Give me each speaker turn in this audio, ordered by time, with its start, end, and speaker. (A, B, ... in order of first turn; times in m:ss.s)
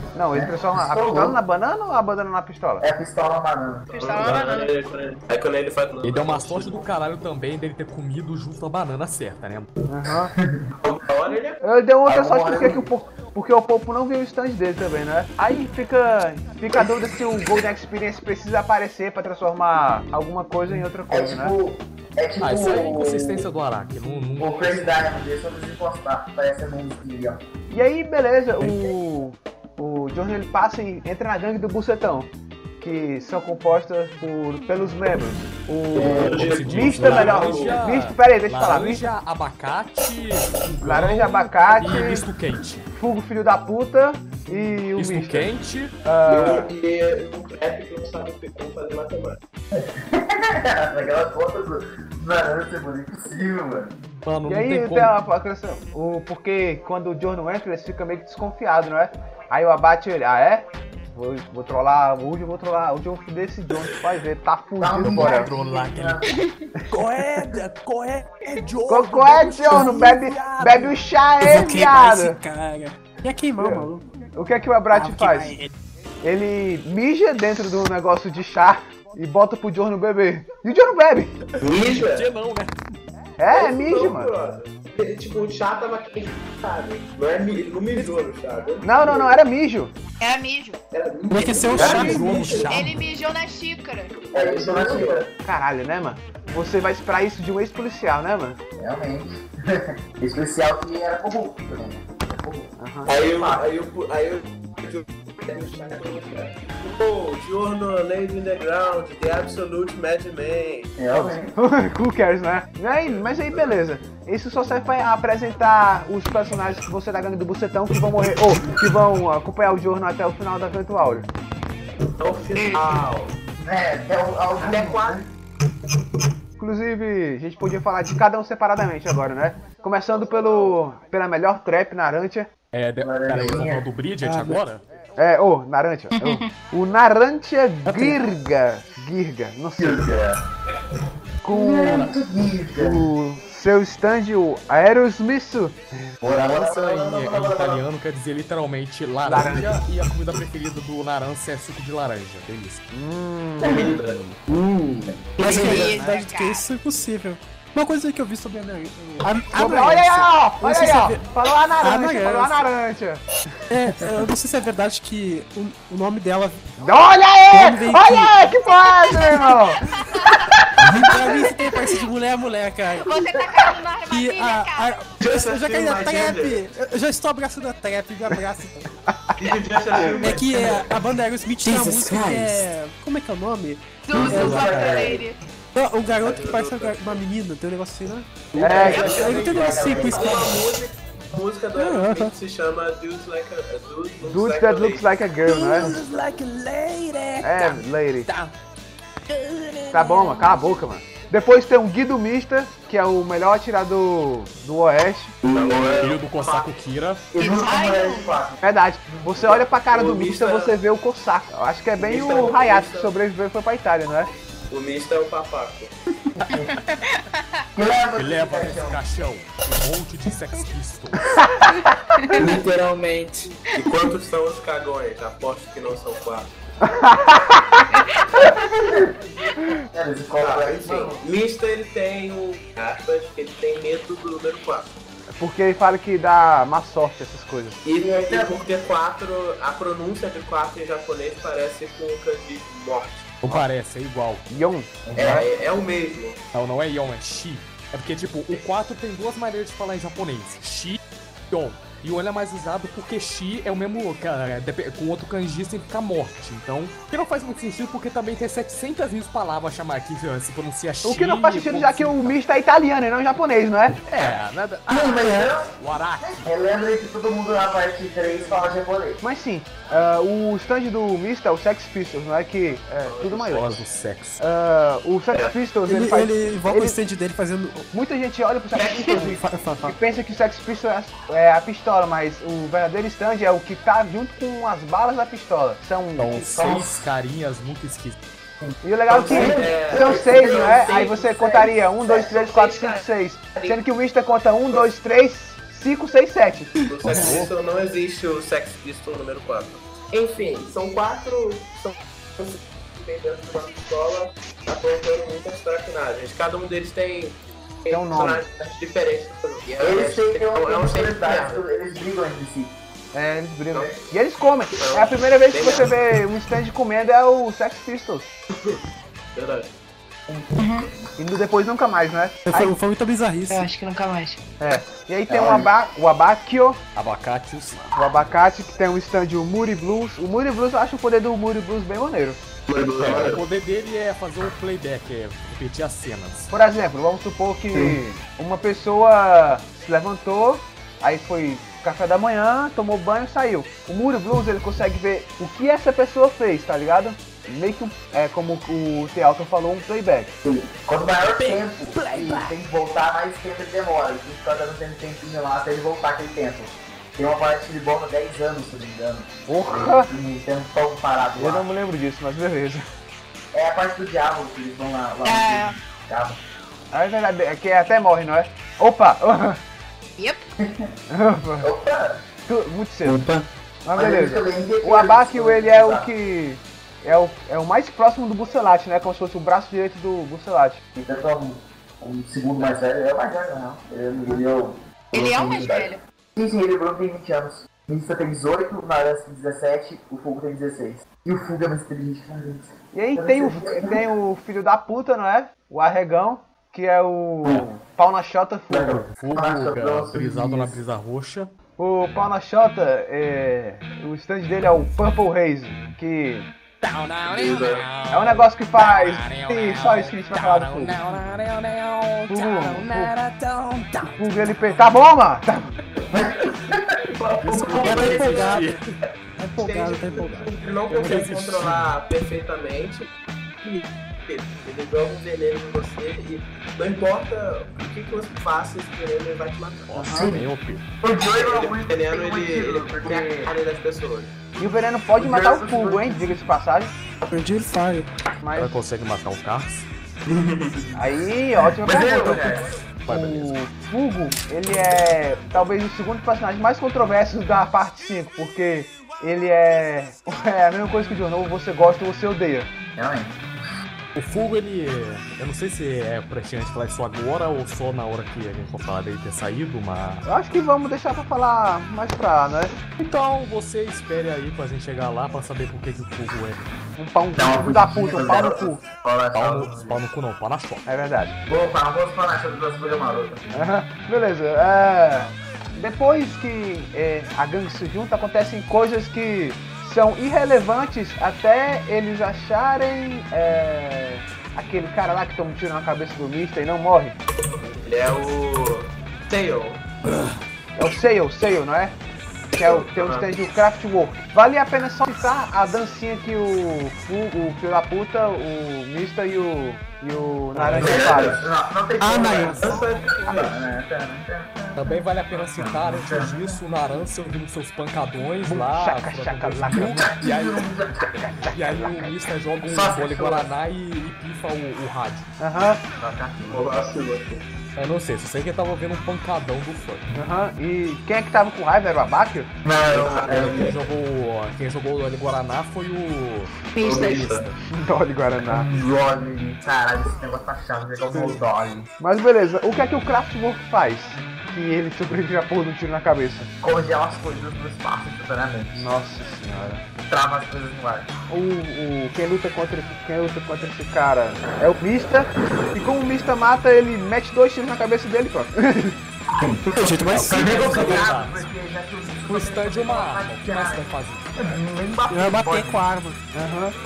0:00.2-0:02.8 A
0:00.3-0:01.4 B
0:02.8-0:03.9 B
0:03.9-0:04.7 C
0:03.9-0:06.9 D
0:06.0-0:09.7 E
0:09.9-0:10.3 A
0:10.4-0:10.7 B
0:10.8-0:11.6 D
0:11.6-0:21.6 A
0:12.0-0:12.9 B
0:21.1-0:23.5 B
0:22.4-0:25.0 E
0:24.4-0:27.4 B
0:27.7-0:39.1 A
0:36.0-0:36.4 B
0:36.0-0:37.8 D
0:36.0-0:42.9 E
0:40.8-0:42.2 A
0:42.9-0:45.5 A
0:45.0-0:46.0 E
0:46.0-0:46.7 A
0:46.3-0:49.4 D
0:49.7-0:54.0 B
0:54.2-0:55.1 E
0:54.5-1:05.5 A
1:04.8-1:06.3 B
1:05.0-1:11.0 E
1:06.2-1:06.5 C
1:08.9-1:12.4 A
1:09.7-1:10.2 F
1:11.4-1:14.0 F
1:13.6-1:15.6 A
1:14.9-1:15.7 F
1:16.2-1:21.4 A
1:21.6-1:22.3 D
1:21.7-1:22.8 E
1:23.4-1:24.3 A
1:23.5-1:29.4 D
1:28.8-1:29.9 A
1:30.2-1:30.8 C
1:30.9-1:33.0 D
1:31.3-1:32.7 F
1:31.7-1:33.0 E
1:31.8-1:32.2 A
1:32.7-1:34.2 C
1:34.2-1:35.3 D
1:34.3-1:35.3 B
1:35.4-1:38.6 A
1:38.8-1:43.6 B
1:42.8-1:43.1 A
1:43.1-1:51.0 D
1:51.0-1:51.6 B
1:51.2-2:01.3 A
1:53.0-1:53.7 D
2:02.2-2:03.4 D
2:03.6-2:05.1 B
2:04.6-2:05.2 D
2:06.6-2:12.5 A
2:10.1-2:10.8 D
2:12.7-2:14.8 E
2:13.0-2:13.9 B
2:14.2-2:14.6 F
2:15.2-2:20.1 A
2:16.1-2:16.5 C
2:17.8-2:18.2 F
2:19.8-2:20.4 B
2:21.4-2:22.1 A
2:21.5-2:23.1 B
2:22.8-2:26.1 A
2:26.2-2:27.8 B
2:26.5-2:32.8 E
2:29.2-2:29.8 A
2:32.9-2:35.0 A
2:33.6-2:34.0 B
2:33.6-2:34.2 D
2:35.0-2:35.9 B
2:35.4-2:41.3 F
2:35.4-2:36.7 C
2:35.6-2:36.1 A
2:39.5-2:43.2 A
2:41.8-2:42.6 F
2:43.7-2:46.7 F
2:46.8-2:49.8 A
2:47.5-2:48.4 F
2:49.9-2:50.4 C
2:50.8-2:51.1 B
2:50.9-2:53.1 F
2:51.1-2:52.0 C
2:53.0-2:55.0 C
2:54.1-2:58.9 F
2:55.2-2:56.6 D
2:59.4-3:01.0 D
3:00.0-3:04.7 F
3:01.6-3:02.6 G
3:04.1-3:05.4 C
3:04.1-3:05.2 B
3:04.3-3:05.1 E
3:04.4-3:05.1 D
3:05.7-3:10.5 F
3:06.1-3:07.2 D
3:08.6-3:15.1 D
3:08.6-3:10.6 B
3:08.6-3:09.1 A
3:08.8-3:10.2 E
3:11.8-3:12.3 F
3:14.2-3:16.0 A
3:15.5-3:18.5 E
3:17.4-3:18.3 A
3:19.9-3:25.4 A
3:25.4-3:26.1 B
3:25.4-3:26.7 D
3:26.0-3:27.2 E
3:27.3-3:28.6 B
3:27.4-3:28.4 C
3:28.6-3:34.3 A
3:29.4-3:30.8 D
3:32.0-3:33.1 D
3:34.7-3:35.9 D
3:36.3-3:36.8 B
3:36.5-3:37.5 C
3:37.8-3:39.0 B
3:38.1-3:41.3 E
3:42.2-3:42.5 C
3:42.3-3:43.5 G
3:43.8-3:46.5 D
3:46.8-3:47.9 A
3:48.4-3:49.2 B
3:49.9-3:51.2 B
3:50.4-3:54.9 D
3:55.4-3:57.8 A
3:57.8-4:03.6 D
3:58.0-3:58.6 B
4:03.4-4:04.5 E
4:04.5-4:05.5 A
4:05.0-4:05.8 B
4:05.2-4:06.4 D
4:06.5-4:11.0 E
4:11.5-4:22.4 E
4:21.0-4:24.4 A
4:24.1-4:26.5 E
4:24.9-4:29.2 B
4:29.2-4:33.8 A
4:33.0-4:33.6 D
4:33.4-4:34.4 E
4:34.4-4:37.0 A
4:35.9-4:37.9 F
4:37.9-4:46.5 A
4:38.8-4:39.5 D
4:39.1-4:40.0 F
4:46.2-4:48.2 E
4:46.4-4:47.1 B
4:48.6-4:51.1 B
4:48.8-4:56.7 A
4:49.1-4:53.0 D
4:56.9-5:11.6 D
4:57.0-4:57.5 E
5:07.9-5:08.4 A
5:09.8-5:12.8 B
5:13.1-5:18.3 A
5:13.7-5:14.1 D
5:14.8-5:15.9 D
5:19.3-5:19.7 D
5:20.3-5:21.1 B
5:20.6-5:20.9 C
5:21.2-5:22.8 A
5:22.5-5:23.7 F
5:23.5-5:24.3 C
5:24.6-5:26.8 A
5:25.3-5:25.7 B
5:27.0-5:27.8 E
5:27.9-5:32.4 A
5:32.7-5:33.4 D
5:33.0-5:36.5 E
5:36.5-5:50.3 A
5:50.4-6:01.7 B
5:59.5-6:00.1 A
6:01.4-6:02.8 A
6:03.5-6:06.4 B
6:05.2-6:05.8 C
6:06.9-6:09.6 A
6:10.2-6:10.4 C
6:10.6-6:10.9 B
6:11.1-6:11.7 A
6:11.6-6:12.2 B
6:12.5-6:13.2 A
6:13.1-6:13.4 B
6:13.8-6:20.8 A
6:14.0-6:16.1 B
6:21.0-6:34.0 B
6:25.1-6:26.0 C
6:32.9-6:39.1 A
6:38.7-6:40.8 B
6:39.1-6:41.5 E
6:41.8-6:46.5 A
6:46.8-6:54.7 E
6:47.2-6:47.9 D
6:48.1-6:51.0 A
6:52.3-6:53.2 A
6:54.1-6:55.7 A
6:56.1-6:58.7 B
6:57.4-6:58.8 E
6:57.7-6:58.8 F
6:59.4-7:01.3 F
6:59.6-7:03.1 D
7:00.9-7:01.9 E
7:03.6-7:09.9 D
7:09.9-7:10.8 E
7:10.0-7:10.3 A
7:10.1-7:10.5 B
7:11.0-7:13.6 B
7:11.3-7:14.3 D
7:14.6-7:16.9 A
7:15.2-7:16.4 B
7:17.3-7:18.1 F
7:18.4-7:18.7 A
7:18.6-7:19.9 E
7:20.3-7:20.8 D
7:21.0-7:32.7 A
7:21.8-7:22.8 B
7:23.0-7:23.5 E
7:33.0-7:33.4 B
7:34.2-7:40.3 E
7:40.2-7:42.7 A
7:43.0-7:46.6 E
7:47.0-7:48.8 A
7:47.4-7:50.0 B
7:49.3-7:50.9 E
7:50.9-7:51.4 A
7:51.5-7:53.4 B
7:53.5-8:07.2 A
8:07.5-8:09.8 D
8:10.8-8:12.0 A
8:12.6-8:21.4 A
8:12.6-8:13.3 D
8:20.6-8:21.3 E
8:20.7-8:26.6 B
8:20.8-8:21.4 D
8:22.0-8:22.7 F
8:22.4-8:22.8 E
8:22.6-8:23.6 D
8:24.8-8:35.3 E
8:28.5-8:30.1 A
8:29.7-8:31.2 B
8:31.0-8:32.3 A
8:32.6-8:33.5 B
8:35.4-8:35.8 A
8:36.0-8:36.7 B
8:36.5-8:37.4 D
8:37.8-8:40.1 E
8:40.1-8:42.5 A
8:42.6-8:43.7 B
8:42.9-8:43.8 D
8:43.2-8:47.6 E
8:46.8-8:47.3 C
8:46.8-8:47.4 D
8:47.7-8:48.7 A
8:48.5-8:51.9 B
8:52.0-8:56.5 A
8:56.6-8:58.9 B
8:58.7-8:59.8 A
9:00.1-9:01.1 B
9:01.3-9:09.0 A
9:09.4-9:15.8 B
9:09.7-9:10.8 F
9:10.1-9:11.5 E
9:10.6-9:11.1 D
9:12.2-9:14.5 E
9:15.1-9:16.2 F
9:16.3-9:16.7 A